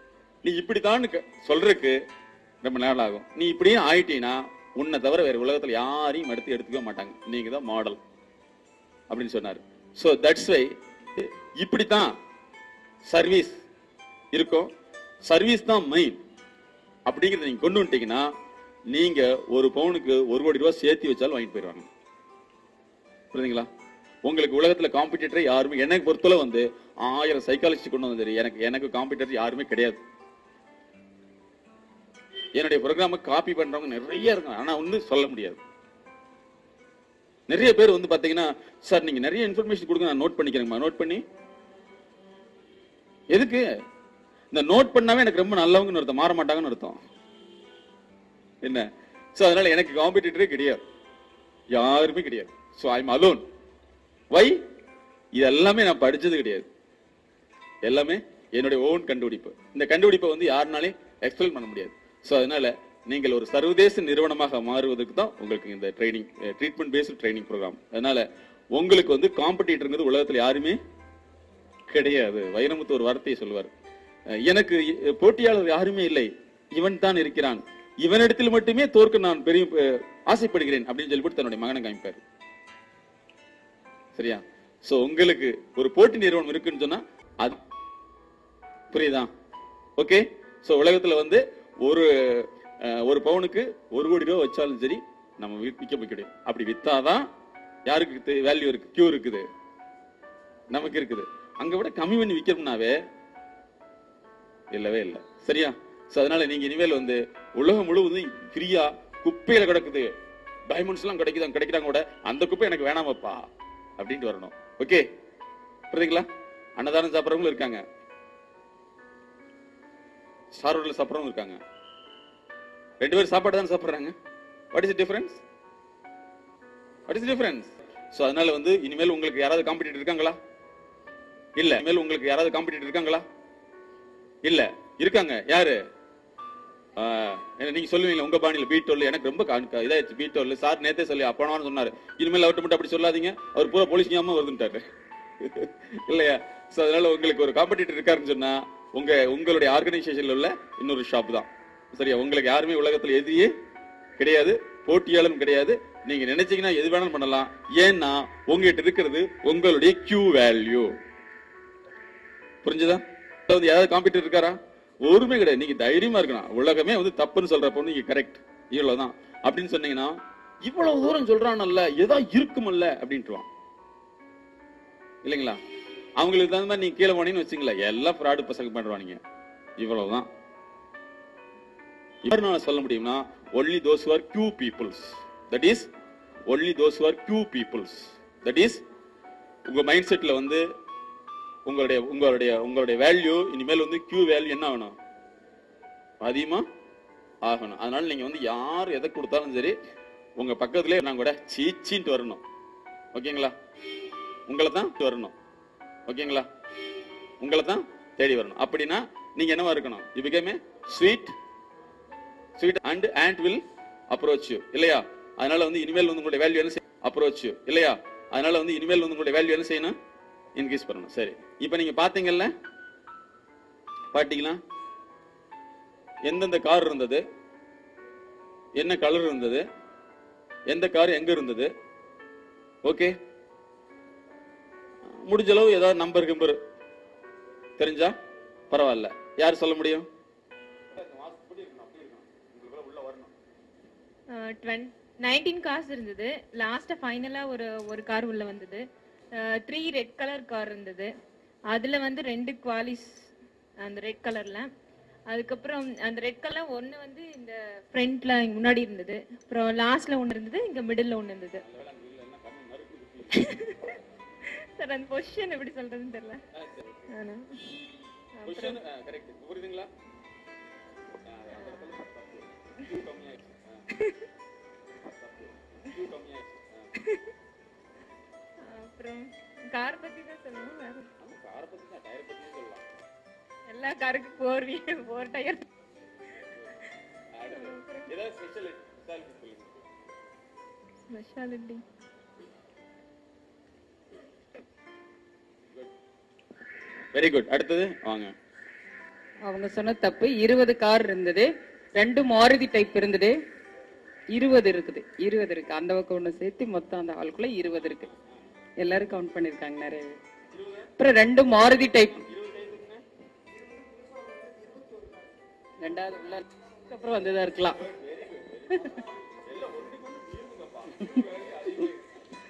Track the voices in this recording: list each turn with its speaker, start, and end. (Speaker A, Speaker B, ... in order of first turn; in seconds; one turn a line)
Speaker A: 0.4-2.0
Speaker A: 2.6-8.0
Speaker A: 9.1-12.1
Speaker A: 13.1-13.6
Speaker A: 14.3-14.7
Speaker A: 15.2-16.2
Speaker A: 17.1-18.3
Speaker A: 18.9-21.9
Speaker A: 23.3-23.7
Speaker A: 24.2-30.0
Speaker A: 32.5-35.6
Speaker A: 37.5-41.2
Speaker A: 43.3-43.7
Speaker A: 44.5-47.0
Speaker A: 48.6-50.8
Speaker A: 51.7-53.4
Speaker A: 54.3-54.6
Speaker A: 55.3-56.7
Speaker A: 57.8-70.8
Speaker A: 71.9-73.7
Speaker A: 74.3-82.2
Speaker A: 84.1-87.6
Speaker A: 88.9-89.3
Speaker A: 90.0-97.3
Speaker A: 97.8-99.5
Speaker A: 100.7-103.0
Speaker A: 104.7-110.1
Speaker A: 110.7-115.1
Speaker A: 115.9-117.8
Speaker A: 120.5-121.6
Speaker A: 123.0-124.1
Speaker A: 124.7-125.4
Speaker A: 127.1-130.4
Speaker A: 131.6-133.2
Speaker A: 134.4-135.8
Speaker A: 137.0-144.8
Speaker A: 145.4-153.5
Speaker A: 154.2-160.9
Speaker A: 162.6-173.5
Speaker A: 175.2-175.6
Speaker A: 176.2-179.2
Speaker A: 179.8-180.3
Speaker A: 182.2-185.9
Speaker A: 186.5-188.8
Speaker A: 189.7-190.7
Speaker A: 191.7-195.0
Speaker A: 196.2-196.7
Speaker A: 197.4-199.7
Speaker A: 200.4-202.4
Speaker A: 203.1-203.5
Speaker A: 204.5-205.3
Speaker A: 206.1-206.5
Speaker A: 207.4-211.4
Speaker A: 212.6-219.9
Speaker A: 220.5-222.5
Speaker A: 224.1-224.6
Speaker A: 226.2-227.2
Speaker A: 228.8-229.6
Speaker A: 230.7-231.7
Speaker A: 232.8-233.1
Speaker A: 235.1-236.6
Speaker A: 237.8-238.2
Speaker A: 238.7-240.1
Speaker A: 240.9-243.3
Speaker B: 244.3-248.8
Speaker B: 249.3-251.1
Speaker B: 251.7-253.2
Speaker B: 253.8-254.7
Speaker B: 255.3-261.6
Speaker A: 261.6-263.5
Speaker B: 263.3-263.9
Speaker B: 264.8-266.4
Speaker A: 266.5-267.1
Speaker B: 267.1-267.6
Speaker B: 268.4-268.8
Speaker A: 268.4-269.9
Speaker A: 271.2-273.9
Speaker A: 275.0-276.9
Speaker B: 278.6-281.1
Speaker A: 281.2-282.9
Speaker B: 283.7-285.6
Speaker A: 287.3-289.9
Speaker B: 287.5-288.1
Speaker B: 291.1-291.8
Speaker A: 297.1-298.3
Speaker C: 299.5-303.4
Speaker C: 304.3-308.1
Speaker C: 308.8-310.2
Speaker A: 310.5-310.9
Speaker C: 311.0-312.2
Speaker A: 312.1-313.0
Speaker C: 315.8-317.8
Speaker A: 317.5-322.0